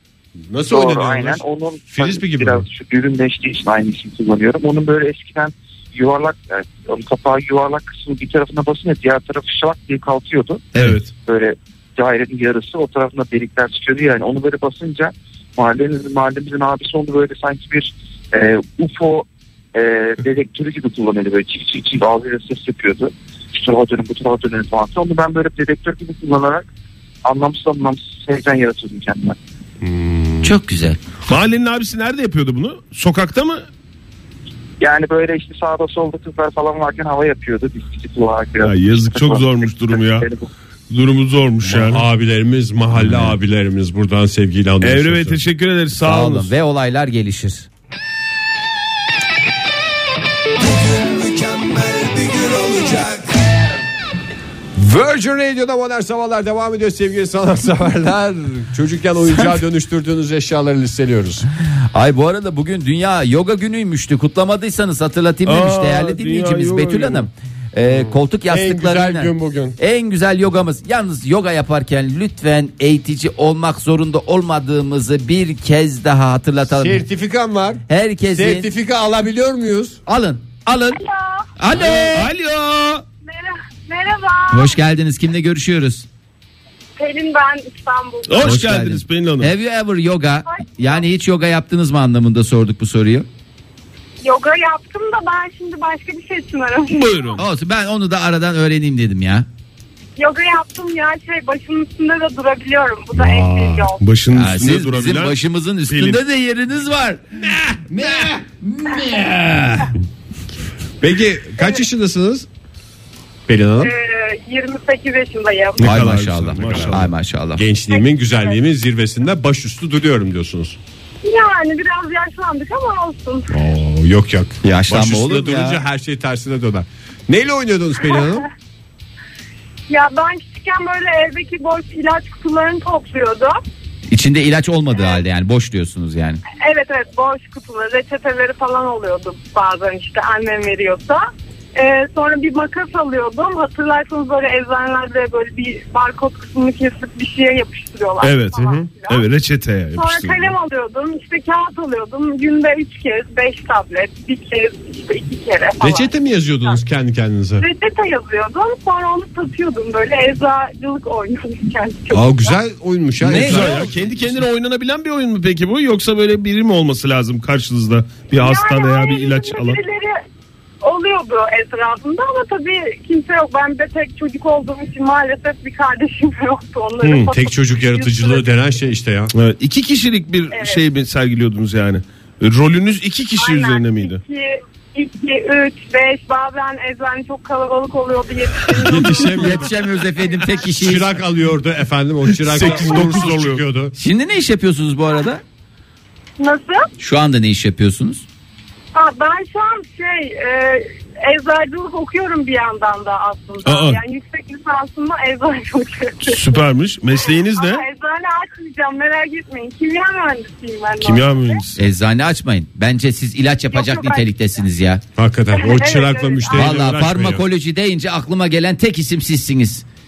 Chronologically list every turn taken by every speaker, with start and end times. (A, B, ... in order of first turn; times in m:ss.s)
0:00.5-0:02.7 A
0:00.7-0:26.7 B
0:10.8-0:11.0 C
0:10.8-0:11.1 D
0:27.2-0:29.4 B
0:29.8-0:30.5 D
0:30.4-0:31.0 C
0:31.3-0:33.6 D
0:34.8-0:40.5 B
0:38.6-0:40.3 D
0:40.9-0:42.0 D
0:41.6-0:45.4 A
0:43.0-0:43.3 C
0:44.8-0:46.5 D
0:46.0-0:47.7 C
0:50.6-0:53.4 A
0:54.8-1:01.5 A
1:01.9-1:17.0 C
1:05.5-1:07.3 D
1:07.8-1:09.8 A
1:16.6-1:20.0 A
1:17.9-1:18.7 C
1:20.1-1:21.0 C
1:21.0-1:21.5 E
1:21.6-1:22.3 C
1:21.7-1:23.0 D
1:23.3-1:24.8 E
1:24.5-1:26.1 C
1:27.0-1:28.5 E
1:28.3-1:29.5 D
1:28.4-1:33.3 C
1:30.5-1:31.0 E
1:34.2-1:37.4 E
1:36.9-1:37.4 D
1:37.4-1:39.5 C
1:40.2-1:44.0 E
1:43.2-1:43.9 A
1:44.0-1:46.2 D
1:44.3-1:49.9 C
1:51.0-1:52.5 A
1:53.5-1:53.9 A
1:53.8-1:55.9 E
1:55.8-1:57.1 D
1:55.8-1:57.6 C
1:56.6-2:00.8 A
1:57.9-1:58.5 E
2:01.2-2:03.5 E
2:03.5-2:08.5 A
2:04.6-2:05.8 C
2:09.9-2:13.6 E
2:14.1-2:16.4 C
2:16.5-2:29.3 E
2:28.2-2:30.5 D
2:30.0-2:36.1 E
2:35.8-2:37.7 A
2:37.6-2:42.6 E
2:42.1-2:44.4 A
2:43.2-2:43.8 C
2:43.3-2:49.8 D
2:48.3-2:50.2 E
2:50.8-2:58.4 E
2:57.0-2:57.3 D
2:57.3-2:59.3 A
2:59.3-3:04.2 D
3:00.5-3:00.8 E
3:03.4-3:10.7 E
3:08.7-3:09.7 A
3:09.0-3:11.2 C
3:10.8-3:14.0 A
3:12.4-3:13.6 D
3:14.0-3:15.4 C
3:16.4-3:16.9 E
3:17.0-3:18.2 C
3:19.0-3:26.5 E
3:23.6-3:24.0 D
3:26.2-3:27.8 D
3:27.5-3:31.6 E
3:31.0-3:31.8 D
3:31.8-3:35.0 C
3:33.7-3:34.3 E
3:35.2-3:37.4 A
3:35.6-3:36.7 E
3:36.5-3:39.8 C